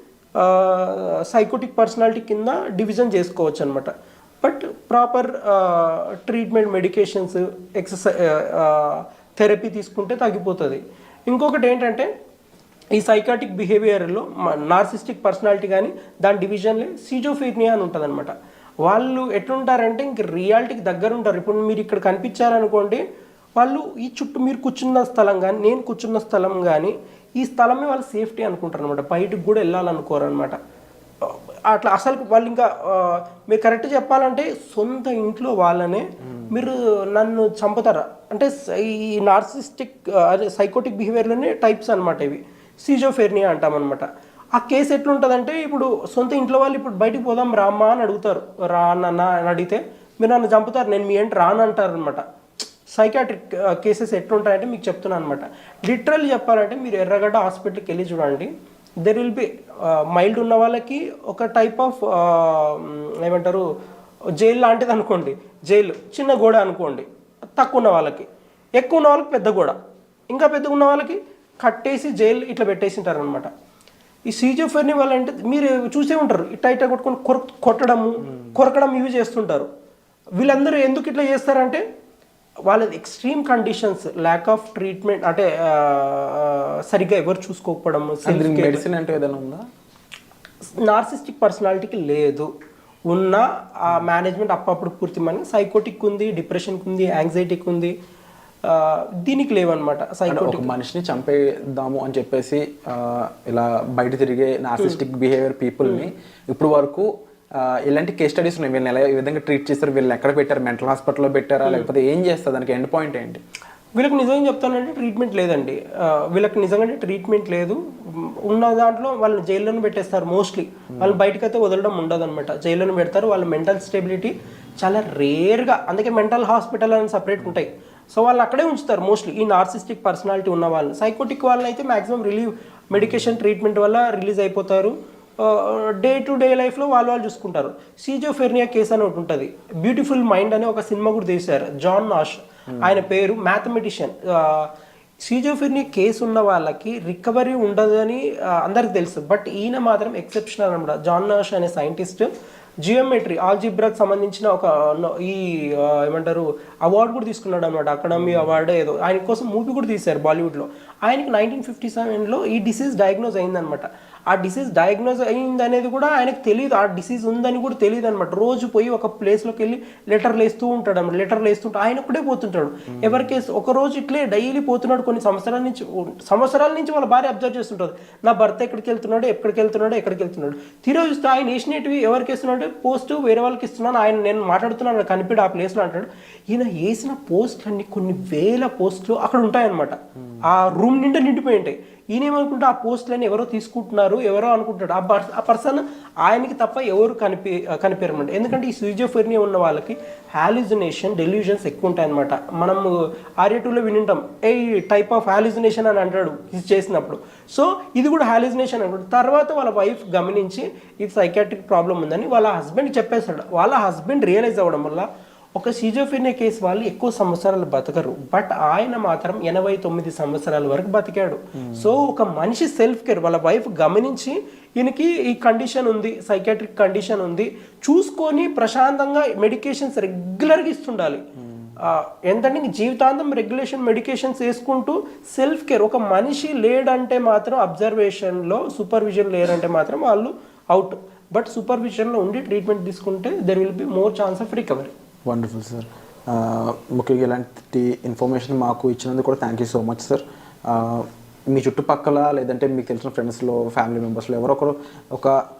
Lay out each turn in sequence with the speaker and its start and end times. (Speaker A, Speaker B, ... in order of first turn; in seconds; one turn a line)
Speaker A: 0.4-12.1
Speaker A: 12.9-18.3
Speaker A: 18.8-23.0
Speaker A: 23.6-30.6
Speaker A: 31.2-52.2
Speaker A: 52.9-58.5
Speaker A: 59.0-63.6
Speaker A: 64.4-68.2
Speaker A: 68.8-69.8
Speaker A: 70.3-73.5
Speaker A: 74.3-79.7
Speaker A: 80.4-81.8
Speaker A: 82.7-88.8
Speaker B: 88.2-89.6
Speaker A: 90.8-92.5
Speaker A: 93.1-97.9
Speaker A: 98.7-100.7
Speaker B: 100.3-113.4
Speaker A: 113.9-144.7
Speaker B: 142.7-143.0
Speaker A: 145.2-152.3
Speaker A: 152.8-231.2
Speaker B: 158.2-158.5
Speaker B: 221.6-221.9
Speaker B: 231.4-231.7
Speaker A: 231.8-244.9
Speaker B: 245.2-255.3